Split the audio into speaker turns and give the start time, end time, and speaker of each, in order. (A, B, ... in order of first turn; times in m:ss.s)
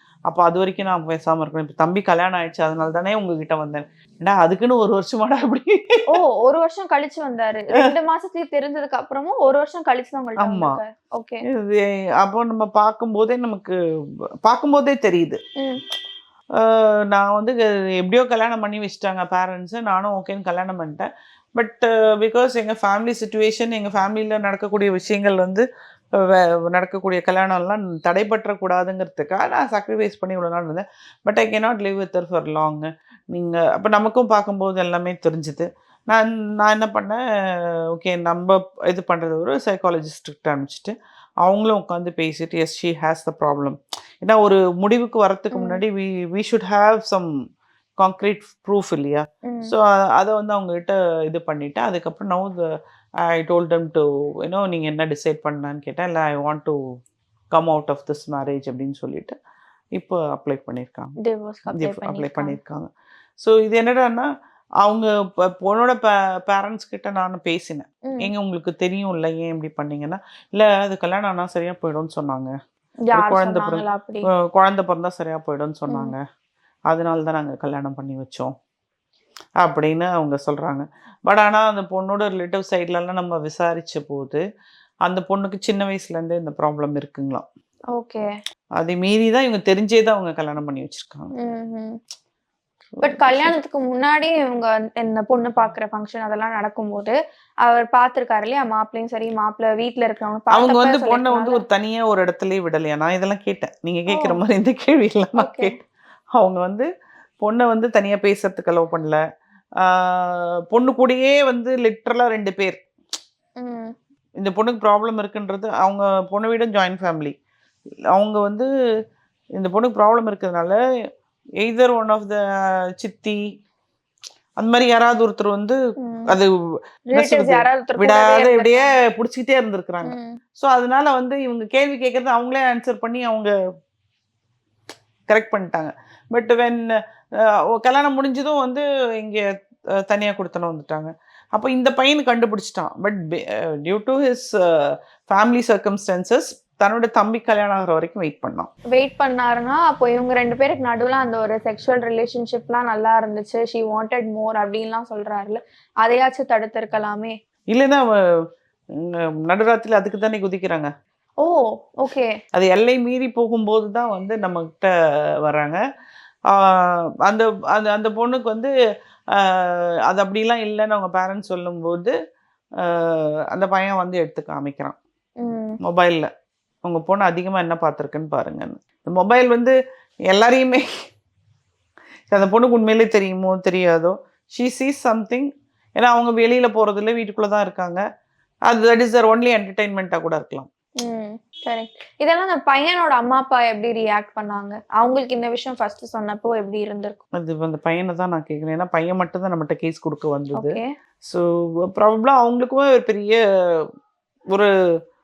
0:00.3-0:06.0 A
0:06.1-0:11.4 B
0:10.4-0:10.8 A
0:11.5-0:13.8 A
0:14.4-0:15.4 A
0:15.6-0:15.8 B
0:16.6-0:47.3 A
0:45.5-0:45.8 B
0:48.0-0:52.6 A
0:49.4-0:49.7 B
0:53.3-0:56.8 A
0:57.5-0:59.4 A
1:00.0-1:01.1 A
1:01.2-1:02.6 B
1:01.7-1:02.9 A
1:03.4-1:04.3 A
1:04.8-1:12.5 A
1:13.1-1:14.3 B
1:13.1-1:16.2 A
1:15.9-1:16.2 B
1:16.9-1:18.5 A
1:19.6-1:24.4 A
1:25.0-1:27.4 A
1:27.9-1:28.2 B
1:28.8-1:31.3 A
1:31.4-1:32.0 B
1:33.0-1:33.5 A
1:33.0-1:41.6 B
1:40.5-1:45.8 A
1:44.1-1:44.4 B
1:45.4-1:45.8 B
1:46.4-1:46.9 A
1:47.4-1:49.2 A
1:49.8-1:52.8 A
1:53.6-1:53.9 B
1:54.4-1:57.3 A
1:58.1-1:58.7 A
1:59.6-2:00.8 A
2:01.6-2:02.4 A
2:03.0-2:03.4 A
2:04.6-2:05.8 A
2:06.0-2:06.3 B
2:07.1-2:08.9 B
2:07.2-2:13.5 A
2:10.0-2:10.4 B
2:15.3-2:16.9 A
2:17.4-2:19.4 A
2:20.0-2:28.7 A
2:28.9-2:37.4 B
2:37.7-2:38.1 A
2:39.0-2:40.9 A
2:41.4-2:42.3 B
2:42.5-2:45.8 A
2:46.5-2:48.7 A
2:49.3-2:52.1 A
2:52.8-2:55.0 A
2:55.4-2:55.8 B
2:55.8-2:56.3 A
2:56.8-2:59.8 A
3:00.3-3:00.9 A
3:02.3-3:08.0 A
3:08.7-3:10.7 A
3:11.0-3:17.2 B
3:17.3-3:20.8 A
3:20.6-3:20.9 B
3:21.3-3:23.9 A